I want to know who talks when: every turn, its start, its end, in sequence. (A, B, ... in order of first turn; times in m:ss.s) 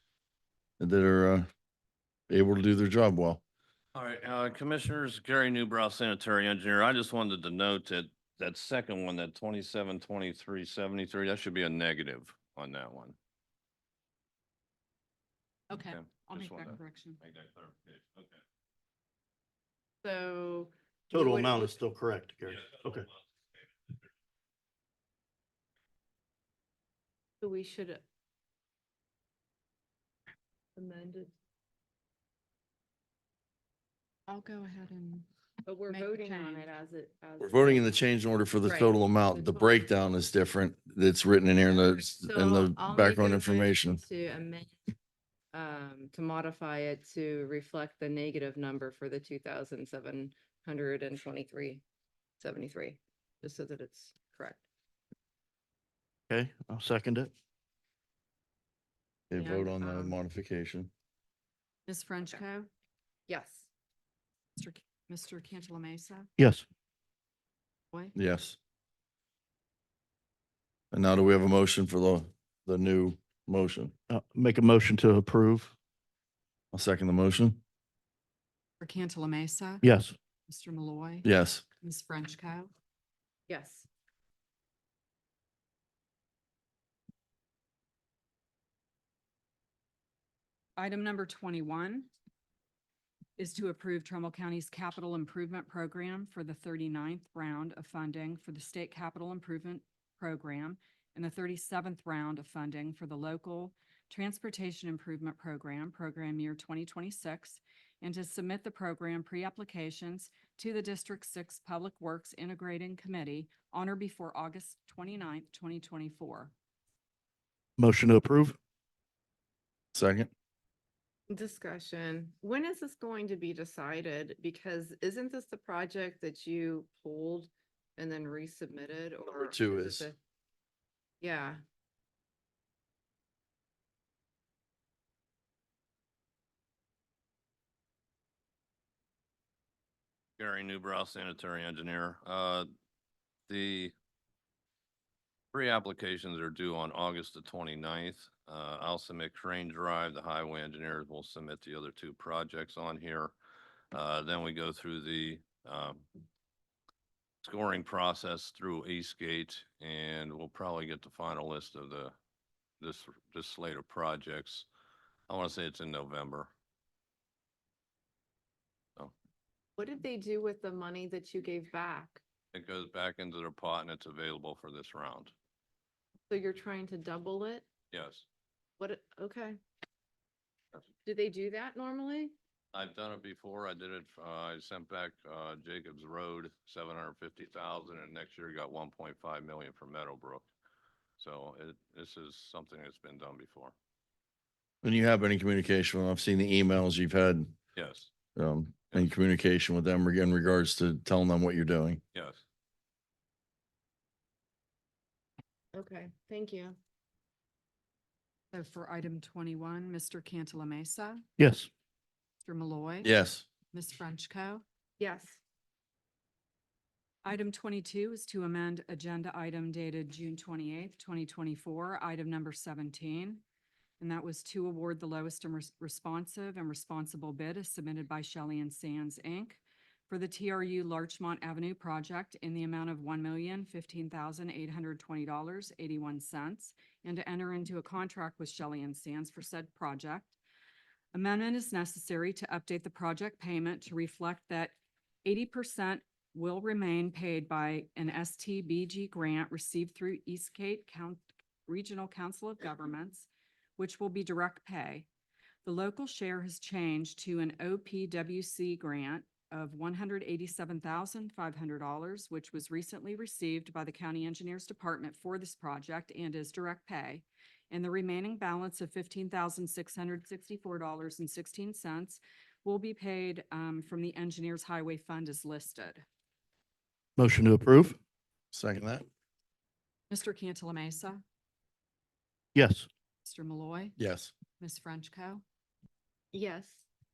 0:00.8-0:01.5 A
0:02.3-0:03.4 A
0:03.9-0:13.2 B
0:15.7-0:17.2 C
0:15.8-0:18.4 B
0:20.0-0:21.8 D
0:21.1-0:23.1 E
0:27.4-0:28.0 D
0:30.8-0:31.3 D
0:34.3-0:35.3 C
0:35.7-0:38.0 D
0:35.9-0:36.7 C
0:37.4-0:44.0 A
0:38.6-0:39.9 D
0:41.7-0:44.8 D
0:45.5-0:51.8 D
0:52.4-0:54.6 D
0:56.3-0:57.3 E
0:59.3-1:00.9 A
0:59.3-1:00.2 D
1:01.9-1:02.7 C
1:03.3-1:03.7 D
1:04.6-1:06.3 C
1:06.4-1:06.7 E
1:08.2-1:08.6 A
1:10.9-1:13.9 A
1:14.1-1:15.8 E
1:16.7-1:17.6 A
1:18.8-1:19.8 C
1:19.8-1:20.2 E
1:20.5-1:22.7 C
1:21.2-1:21.6 A
1:23.5-1:23.9 D
1:30.8-1:32.1 C
1:33.4-1:56.5 C
1:57.8-1:58.6 E
1:59.9-2:00.3 A
2:01.3-2:10.2 D
2:09.5-2:10.1 A
2:11.2-2:11.6 D
2:20.4-2:22.7 B
2:23.5-2:23.9 B
2:25.5-2:33.3 B
2:33.9-2:36.0 B
2:37.4-2:42.1 B
2:42.8-2:44.7 B
2:45.3-2:46.5 B
2:49.8-2:52.2 D
2:52.5-2:55.3 B
2:56.3-2:57.6 D
2:57.9-2:58.3 B
2:58.8-2:59.6 D
3:01.0-3:02.3 D
3:02.7-3:10.5 B
3:11.2-3:13.7 B
3:14.8-3:17.6 A
3:17.8-3:18.1 B
3:18.4-3:22.0 A
3:22.1-3:22.4 B
3:25.7-3:26.8 D
3:28.5-3:31.2 C
3:31.4-3:31.7 E
3:32.4-3:34.6 C
3:33.0-3:33.5 A
3:35.0-3:35.4 D
3:37.2-3:43.4 C
3:44.0-4:00.4 C
4:01.1-4:15.1 C
4:15.6-4:36.0 C
4:37.2-4:38.0 E
4:38.5-4:39.1 A
4:40.1-4:41.2 C
4:42.6-4:42.9 E
4:43.2-4:44.0 C
4:44.0-4:44.3 A
4:44.6-4:45.4 C
4:46.3-4:46.8 D